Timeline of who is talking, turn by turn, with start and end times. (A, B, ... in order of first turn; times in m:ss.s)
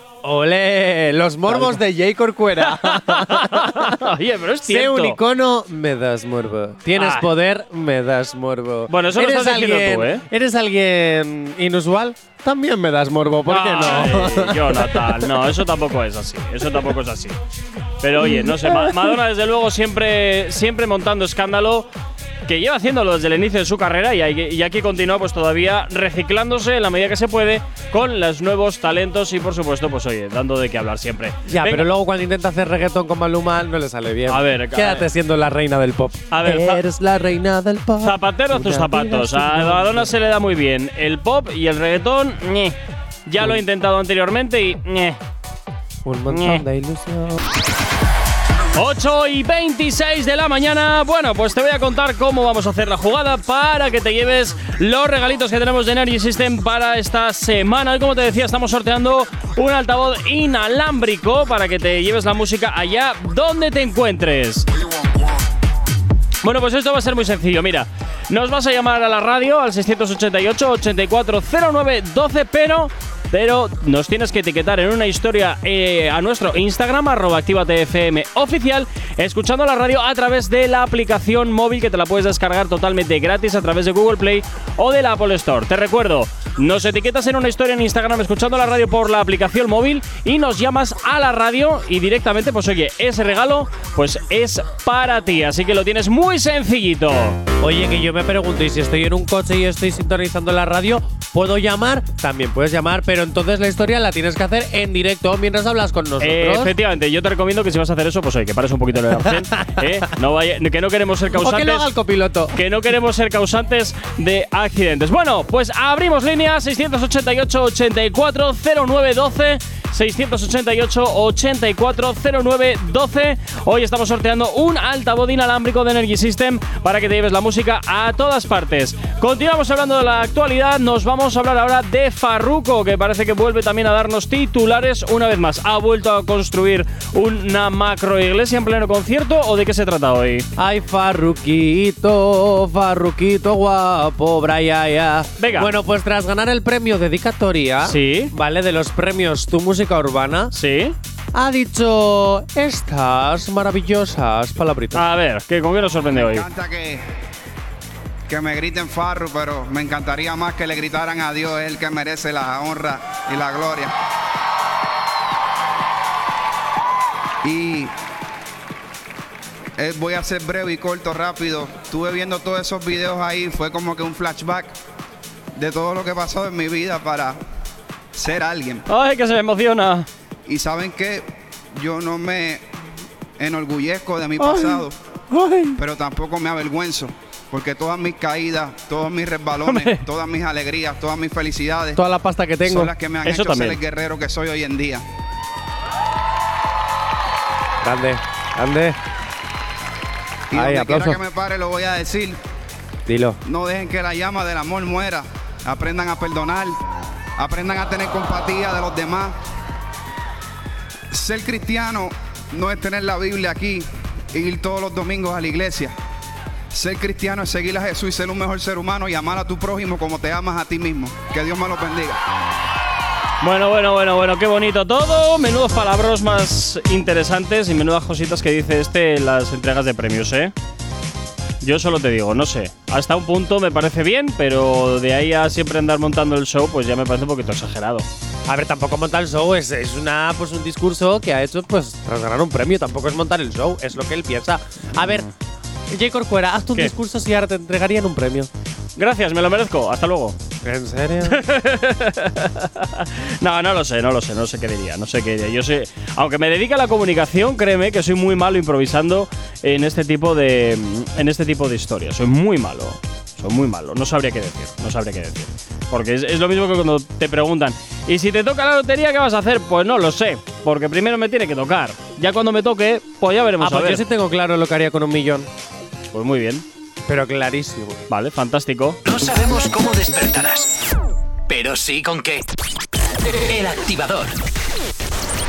0:00.2-0:04.0 A
0:01.5-0:01.8 B
0:02.6-0:05.2 B
0:04.7-0:15.4 A
0:07.0-0:07.3 B
0:08.9-0:10.2 B
0:13.5-0:17.4 B
0:18.0-0:21.9 B
0:18.2-0:19.0 A
0:22.5-0:31.9 B
0:31.5-0:40.1 A
0:34.3-0:35.1 B
0:36.3-0:36.8 B
0:38.0-0:42.8 B
0:43.3-0:45.2 B
0:46.0-0:47.4 A
0:46.3-0:46.6 B
0:48.8-1:04.7 B
1:06.4-1:37.4 B
1:37.6-1:46.7 A
1:46.2-1:51.9 B
1:49.1-1:50.0 A
1:51.3-1:52.6 A
1:52.5-2:20.5 B
2:20.6-2:30.5 A
2:25.4-2:25.7 B
2:27.8-2:28.3 B
2:30.5-2:31.0 B
2:31.3-2:35.0 A
2:34.9-2:36.5 B
2:36.2-2:37.0 C
2:38.3-2:43.9 C
2:47.4-2:47.9 C
2:49.8-2:54.8 C
2:55.6-2:57.4 C
2:58.2-2:58.8 C
2:58.9-3:00.1 B
3:00.5-3:02.6 C
3:03.4-3:05.0 C
3:04.4-3:05.8 A
3:05.8-3:12.0 C
3:09.7-3:10.0 B
3:12.0-3:12.9 A
3:12.6-3:15.0 C
3:13.2-3:13.8 B
3:17.8-3:19.0 A
3:20.5-3:22.4 C
3:20.5-3:21.2 A
3:23.1-3:23.4 A
3:23.4-3:26.8 C
3:27.4-3:29.4 C
3:31.1-3:35.9 C
3:36.7-3:42.2 C
3:43.4-3:50.5 B
3:51.6-3:58.1 B
3:58.5-4:05.3 A
4:05.0-4:05.3 B
4:05.9-4:08.5 A
4:09.0-4:10.4 B
4:10.6-4:11.4 A
4:11.3-4:34.0 B
4:33.6-4:35.5 A
4:36.1-4:36.6 B
4:37.1-4:38.0 A
4:38.1-4:39.0 B
4:39.0-4:40.7 D
4:41.5-4:42.5 D
4:43.3-4:44.4 D